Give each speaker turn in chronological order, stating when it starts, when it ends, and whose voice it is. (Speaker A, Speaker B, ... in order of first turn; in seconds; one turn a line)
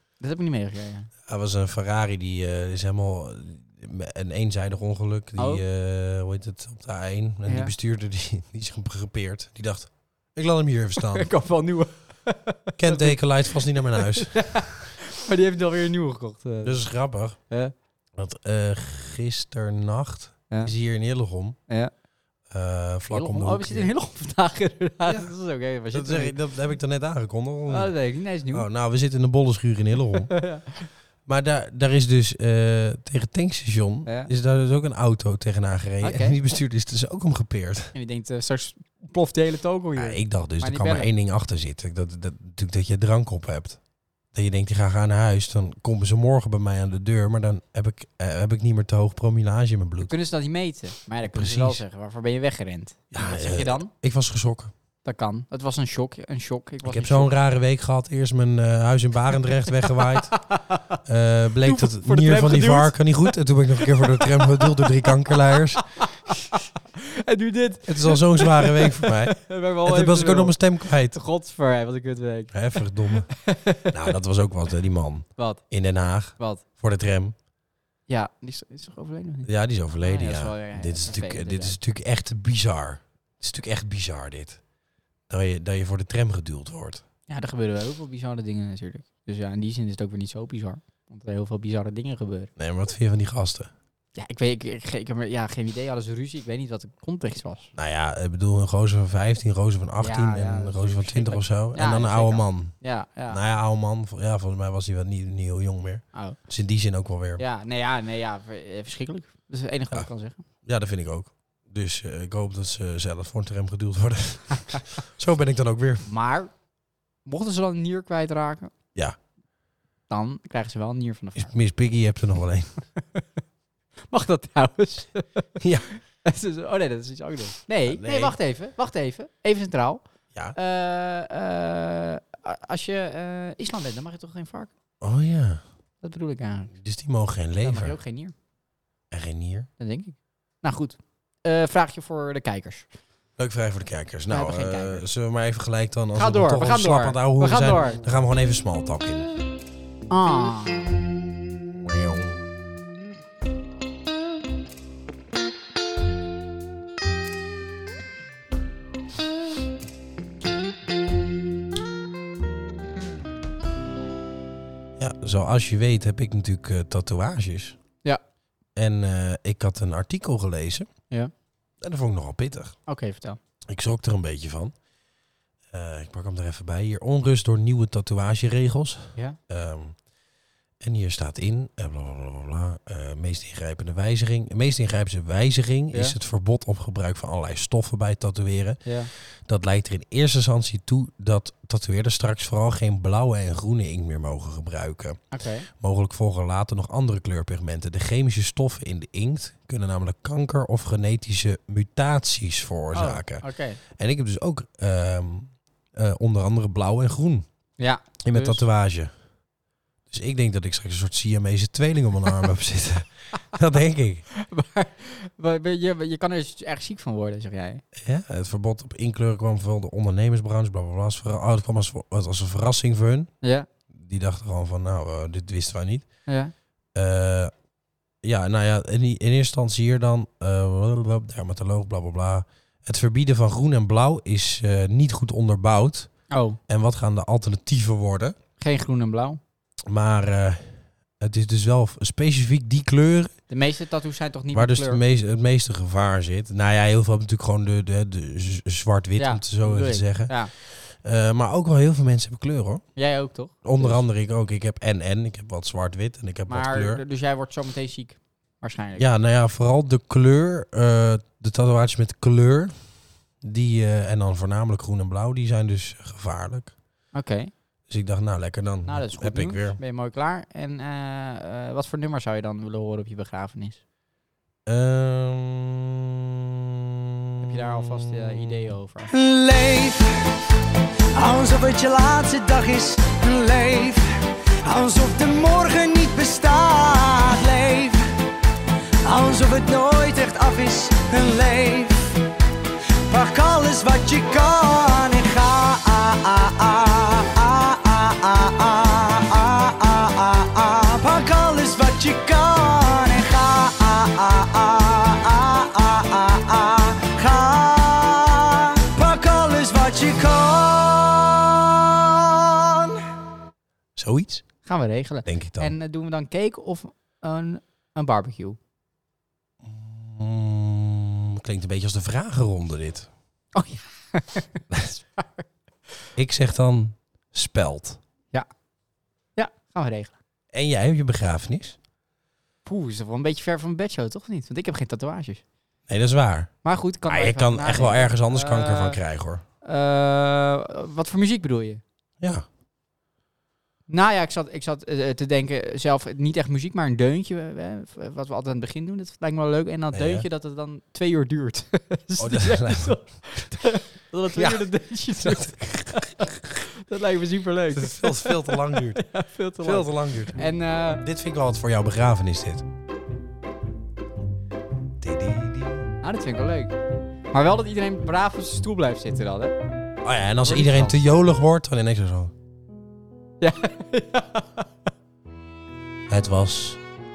Speaker A: 0.2-1.1
Speaker B: 1.3-11.3
Speaker A: 5.4-5.6
Speaker A: 7.5-7.7
Speaker A: 11.0-16.8
Speaker B: 12.8-14.7
Speaker B: 16.6-17.4
Speaker B: 18.1-21.6
Speaker B: 22.5-23.9
Speaker A: 23.1-26.4
Speaker B: 25.1-25.3
Speaker B: 25.9-27.9
Speaker A: 27.7-28.7
Speaker B: 28.5-30.3
Speaker A: 30.3-30.9
Speaker B: 31.2-37.9
Speaker A: 34.0-34.3
Speaker A: 36.0-36.4
Speaker A: 37.9-41.1
Speaker B: 40.0-43.8
Speaker B: 44.3-50.1
Speaker A: 50.1-53.9
Speaker B: 51.2-51.8
Speaker B: 53.1-54.7
Speaker A: 55.0-57.3
Speaker B: 56.8-60.4
Speaker A: 60.0-61.0
Speaker B: 61.0-65.8
Speaker A: 61.6-73.9
Speaker B: 67.9-71.2
Speaker B: 72.5-73.3
Speaker B: 73.9-77.3
Speaker A: 75.4-75.6
Speaker A: 76.3-76.6
Speaker A: 78.1-81.8
Speaker B: 79.4-84.6
Speaker B: 85.3-87.0
Speaker A: 87.3-92.5
Speaker B: 92.6-93.7
Speaker A: 94.1-97.7
Speaker B: 97.8-102.7
Speaker A: 100.0-103.4
Speaker B: 103.3-107.4
Speaker A: 107.4-110.4
Speaker B: 110.6-116.1
Speaker A: 116.0-116.5
Speaker A: 117.2-118.7
Speaker A: 120.1-121.5
Speaker B: 121.3-122.7
Speaker A: 124.1-130.0
Speaker B: 125.6-125.9
Speaker B: 127.8-128.3
Speaker A: 130.5-134.7
Speaker B: 135.0-135.6
Speaker A: 136.0-136.7
Speaker B: 136.7-138.0
Speaker A: 137.6-138.3
Speaker B: 139.1-139.7
Speaker A: 139.8-142.9
Speaker B: 143.4-149.3
Speaker A: 144.3-145.1
Speaker A: 146.2-148.0
Speaker A: 150.1-151.0
Speaker B: 151.8-152.4
Speaker B: 165.0-167.8
Speaker B: 168.8-170.9
Speaker B: 171.8-172.7
Speaker A: 172.9-173.4
Speaker B: 173.7-174.7
Speaker B: 175.7-179.9
Speaker B: 180.8-207.4
Speaker A: 188.8-189.1
Speaker A: 195.3-195.7
Speaker A: 202.9-203.8
Speaker A: 207.8-208.6
Speaker B: 208.2-209.1
Speaker B: 210.1-214.2
Speaker A: 214.4-217.8
Speaker B: 217.9-223.3
Speaker A: 223.4-223.7
Speaker B: 223.9-226.1
Speaker A: 226.3-226.5
Speaker B: 226.9-227.5
Speaker B: 228.2-236.1
Speaker A: 236.3-236.6
Speaker B: 236.7-238.3
Speaker A: 238.6-239.4
Speaker B: 239.8-243.3
Speaker A: 243.5-245.0
Speaker B: 244.5-252.8
Speaker A: 249.2-250.5
Speaker A: 253.0-254.0
Speaker B: 253.6-257.0
Speaker A: 256.5-259.0
Speaker B: 258.9-262.8
Speaker B: 263.4-266.7
Speaker A: 267.1-267.5
Speaker B: 267.9-269.8
Speaker A: 268.8-273.8
Speaker B: 274.6-278.7
Speaker A: 277.4-279.1
Speaker C: 279.1-280.1
Speaker C: 281.1-284.1
Speaker C: 284.6-288.0
Speaker C: 289.0-292.2
Speaker C: 293.1-312.9
Speaker B: 313.9-314.4
Speaker A: 314.6-318.6
Speaker B: 315.2-315.7
Speaker B: 319.6-323.1
Speaker A: 323.5-325.4
Speaker B: 326.1-328.0
Speaker A: 329.4-330.1
Speaker B: 330.5-331.8
Speaker A: 332.6-335.4
Speaker B: 335.9-336.5
Speaker A: 336.6-339.0
Speaker B: 337.1-339.4
Speaker A: 339.6-341.8
Speaker B: 342.2-342.4
Speaker A: 343.9-361.0
Speaker B: 349.9-350.2
Speaker B: 352.2-353.0
Speaker B: 354.3-356.2
Speaker B: 357.7-359.0
Speaker B: 359.6-360.4
Speaker B: 361.0-362.6
Speaker B: 365.0-365.9
Speaker A: 366.0-366.7
Speaker A: 367.3-369.5
Speaker B: 370.0-372.3
Speaker A: 370.4-371.0
Speaker A: 373.4-374.6
Speaker B: 376.1-376.8